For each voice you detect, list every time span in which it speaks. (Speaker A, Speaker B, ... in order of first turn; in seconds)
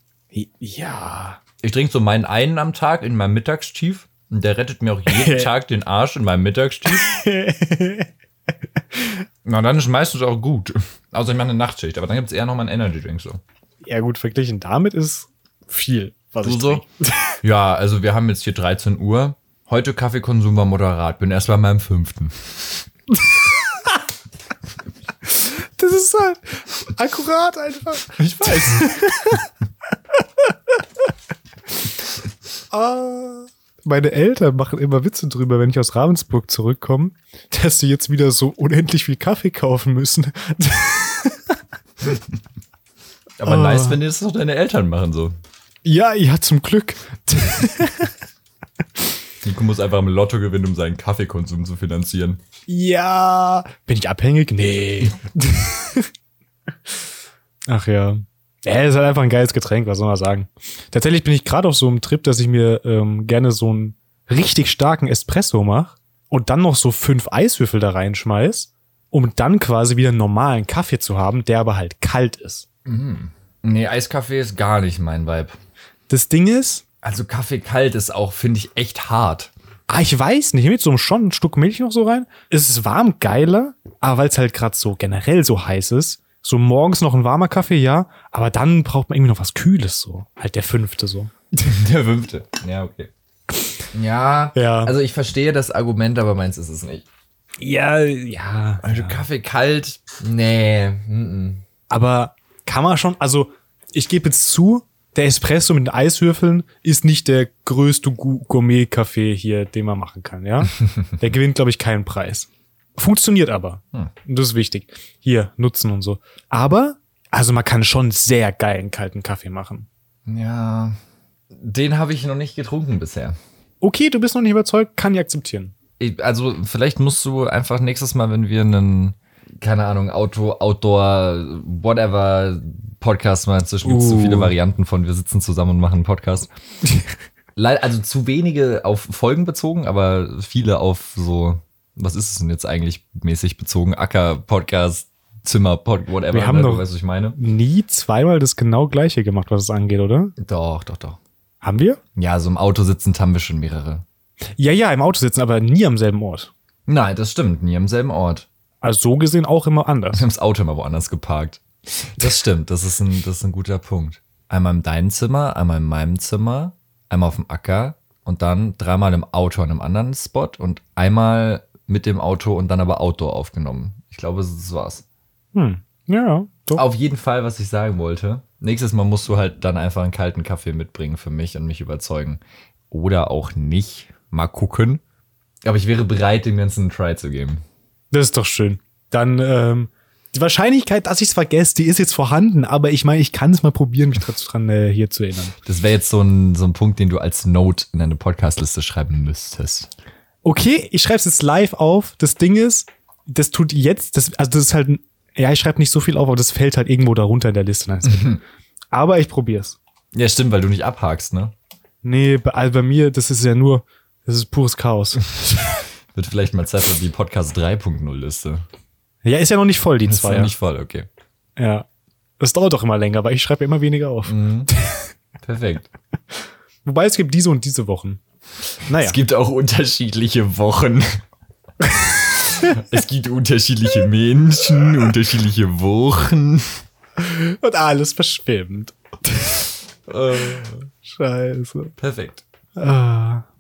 Speaker A: 0.3-1.4, 5.1-5.5, 6.9-8.1, 8.9-9.2, 13.8-17.3, 23.3-23.9, 25.3-29.5, 30.1-30.6, 32.7-41.6, 43.5-44.0, 45.8-48.1, 52.7-56.1, 57.7-72.7, 76.1-76.8, 79.9-91.3, 94.5-94.9, 97.6-99.2, 101.9-119.9, 123.8-125.7, 133.8-134.5, 136.8-137.1, 146.3-146.8, 147.4-150.3, 151.6-152.0, 154.6-156.5, 158.8-160.3, 175.5-176.8, 188.1-195.6, 200.4-208.4, 208.9-209.8, 212.0-215.7, 219.2-220.5, 221.6-221.9, 222.4-225.1, 226.8-228.2, 228.9-229.2, 231.8-232.1, 237.2-239.7, 240.4-241.9, 242.8-243.4
Speaker B: 1.6-7.2, 9.4-13.4, 16.4-16.9, 17.4-22.9, 28.1-28.9, 43.4-45.4, 49.4-52.4, 72.9-75.6, 77.0-79.5, 91.6-93.1, 93.9-97.1, 98.8-101.6, 110.9-111.1, 120.3-121.0, 121.6-123.4, 126.0-136.5, 137.6-147.4, 150.4-151.2, 152.2-154.1, 156.9-158.5, 160.1-175.0, 176.8-185.0, 185.6-187.6, 195.7-199.9, 208.1-208.4, 210.1-211.5, 216.1-218.6, 220.1-221.1, 224.3-224.7, 225.4-225.9, 229.0-231.2, 232.4-236.8, 240.1-240.9, 242.0-242.4